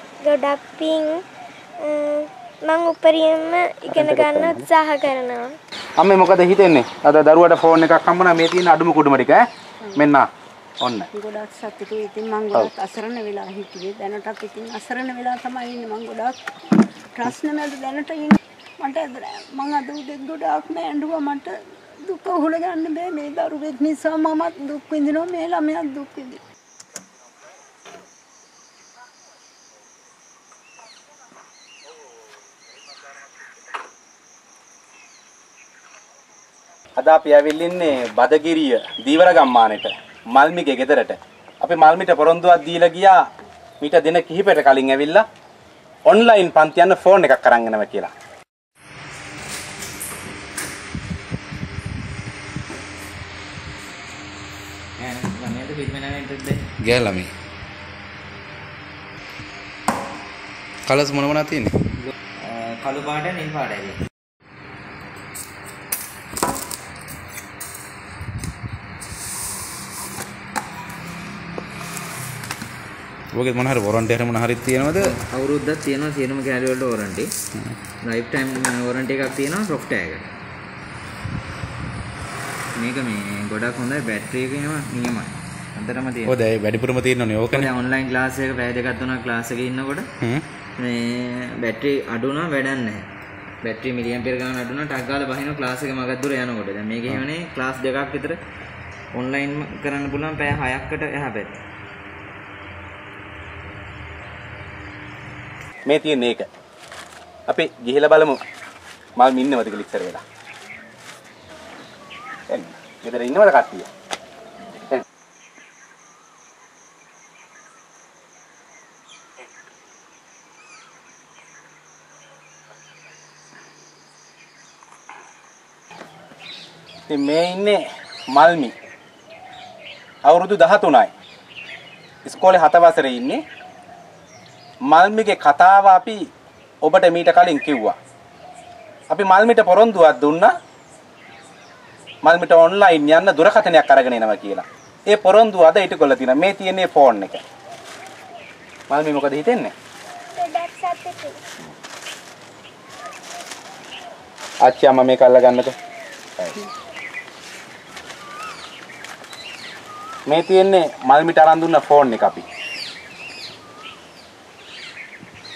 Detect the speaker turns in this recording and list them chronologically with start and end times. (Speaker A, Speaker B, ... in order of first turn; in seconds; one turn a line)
Speaker A: 0.3-1.1
Speaker A: 1.8-5.4
Speaker B: 3.9-4.7
Speaker B: 6.0-9.4
Speaker B: 10.0-10.3
Speaker B: 10.8-11.1
Speaker C: 11.1-16.4
Speaker C: 17.2-26.4
Speaker B: 37.0-43.2
Speaker B: 43.8-45.2
Speaker B: 46.1-48.1
Speaker D: 55.0-56.6
Speaker B: 56.8-57.3
Speaker B: 60.9-61.8
Speaker D: 62.4-64.0
Speaker B: 73.3-75.1
Speaker D: 75.0-77.3
Speaker D: 78.0-80.2
Speaker D: 82.8-86.4
Speaker B: 86.2-87.7
Speaker D: 87.5-90.1
Speaker D: 90.8-93.0
Speaker D: 93.6-98.4
Speaker D: 99.2-101.5
Speaker B: 105.9-106.5
Speaker B: 107.5-108.4
Speaker B: 109.2-110.2
Speaker B: 112.5-113.9
Speaker B: 127.1-127.8
Speaker B: 128.3-128.7
Speaker B: 130.3-131.1
Speaker B: 132.2-133.4
Speaker B: 134.9-136.2
Speaker B: 136.8-137.9
Speaker B: 139.1-140.5
Speaker B: 142.2-147.4
Speaker B: 148.9-149.7
Speaker A: 150.3-151.4
Speaker B: 154.6-155.8
Speaker B: 160.3-162.5